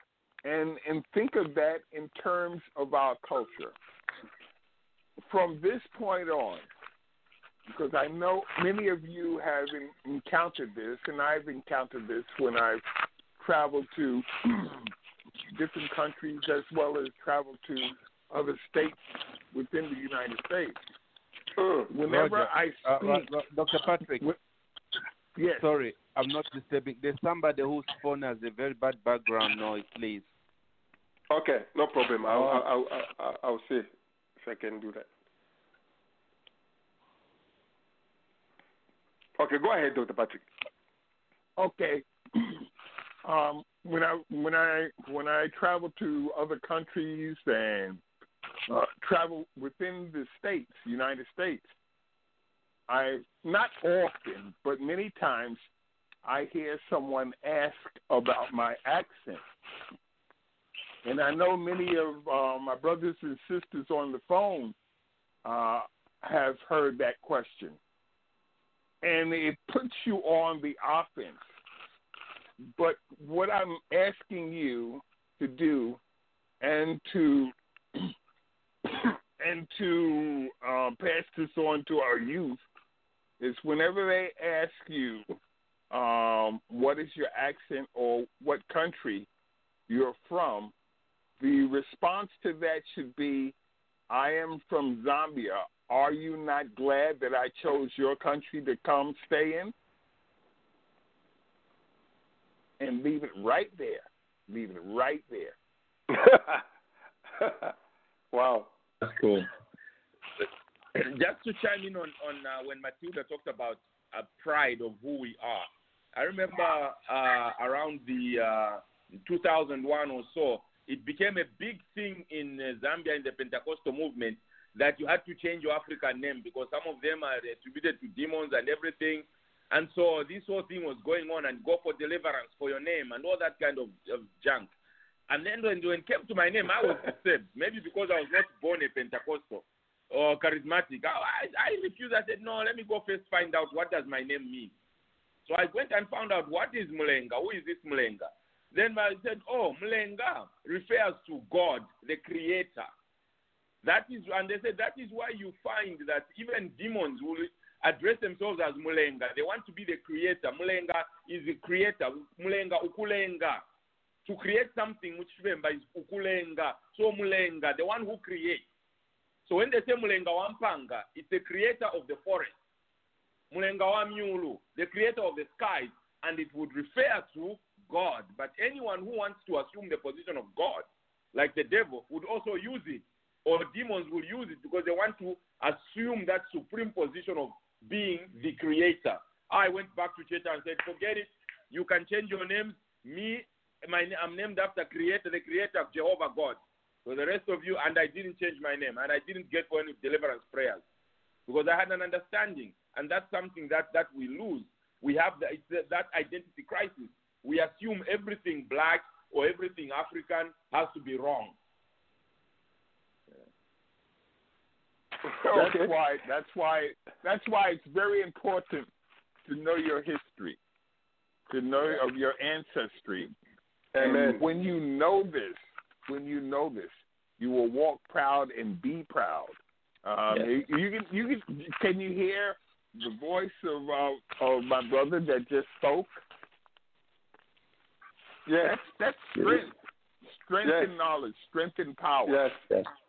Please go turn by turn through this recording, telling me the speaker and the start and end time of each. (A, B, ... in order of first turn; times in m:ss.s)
0:00.4-0:03.8 A
0:05.2-0:06.7 A
0:07.7-0:12.8 A
0:13.4-0:14.9 A
0:15.5-0:20.8 A
0:21.6-0:21.9 B
0:21.9-0:23.3 A
0:22.0-0:24.2 C
0:25.4-0:25.7 A
0:25.6-0:30.3 C
0:31.3-0:35.1 B
0:32.2-0:32.6 C
0:39.4-0:40.4 B
0:41.6-0:42.7 A
0:43.2-0:48.0 A
0:48.7-0:51.7 A
0:52.9-0:55.6 A
0:56.2-0:59.4 A
1:01.0-1:04.7 A
1:05.4-1:07.8 A
1:09.0-1:11.4 A
1:12.7-1:16.0 A
1:16.6-1:18.1 A
1:18.9-1:22.6 A
1:23.4-1:25.3 A
1:25.9-1:29.3 A
1:29.9-1:30.7 A
1:31.4-1:33.5 A
1:34.1-1:39.7 A
1:42.8-1:45.6 A
1:46.1-1:46.6 B
1:47.4-1:47.7 B
1:48.3-1:48.7 B
1:49.0-1:49.4 D
1:50.9-2:14.7 D
2:15.3-2:24.7 D
2:25.5-2:32.9 D
2:33.8-2:43.6 D
2:44.2-2:48.6 D
2:49.4-2:52.5 D
2:53.5-3:20.8 D
3:21.5-3:31.6 D
3:35.3-3:35.9 B
3:35.5-3:38.9 A
3:39.4-3:40.6 A
3:41.5-3:43.3 A
3:43.9-3:44.4 B
3:44.0-3:56.2 A
3:58.4-3:58.8 B
3:58.6-4:02.4 A
4:00.6-4:00.9 B
4:02.2-4:02.6 B